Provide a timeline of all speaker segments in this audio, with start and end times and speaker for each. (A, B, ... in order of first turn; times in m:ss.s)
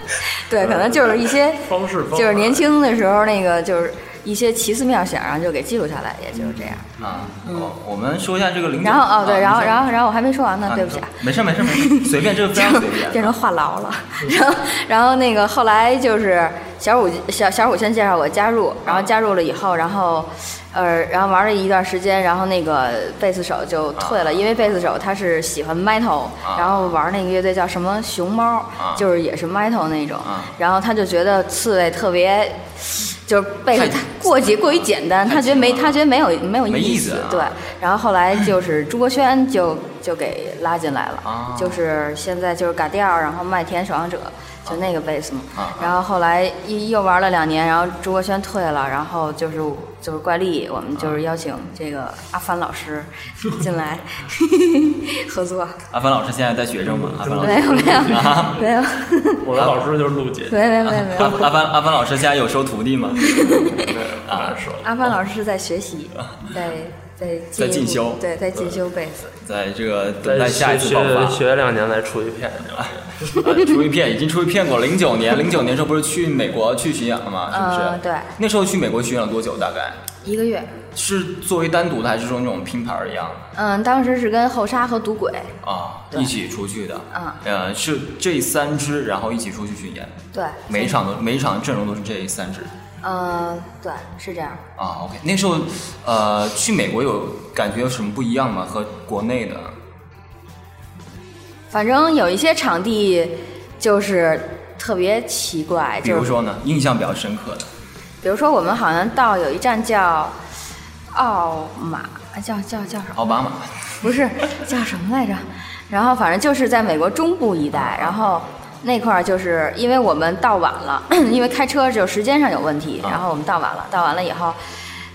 0:00.3-0:06.8 A
0:00.6-0:02.7 B
0:06.3-0:07.3 B
0:07.0-0:09.8 C
0:07.4-0:07.7 A
0:08.8-0:55.8 A
0:10.6-0:13.4 C
0:24.0-0:24.4 C
0:26.4-0:27.0 C
0:28.8-0:29.0 C
0:30.2-0:30.5 C
0:33.7-0:36.0 C
0:36.6-0:37.6 C
0:41.2-0:41.8 C
0:45.5-0:45.9 C
0:50.9-0:51.2 C
0:55.9-0:58.6 C
0:56.8-0:58.6 B
0:57.4-0:59.4 A
0:59.4-1:00.6 B
1:00.5-1:01.4 A
1:00.8-1:03.3 C
1:03.2-1:03.8 A
1:03.6-1:04.9 B
1:04.2-1:04.6 C
1:04.8-1:09.4 A
1:06.2-1:06.5 C
1:07.6-1:08.2 C
1:09.4-1:11.4 C
1:10.2-1:13.3 B
1:12.7-1:20.0 C
1:17.5-1:18.3 A
1:20.2-1:20.7 A
1:20.9-1:23.5 C
1:23.5-1:25.6 A
1:25.6-1:30.2 C
1:27.1-1:27.4 A
1:30.3-1:31.0 A
1:30.7-1:32.7 C
1:33.0-1:34.6 A
1:34.8-1:39.8 C
1:41.7-1:46.3 A
1:46.0-1:47.7 C
1:48.2-1:50.4 A
1:51.1-1:53.2 A
1:53.1-1:54.0 C
1:54.0-2:04.6 A
1:57.7-1:58.2 C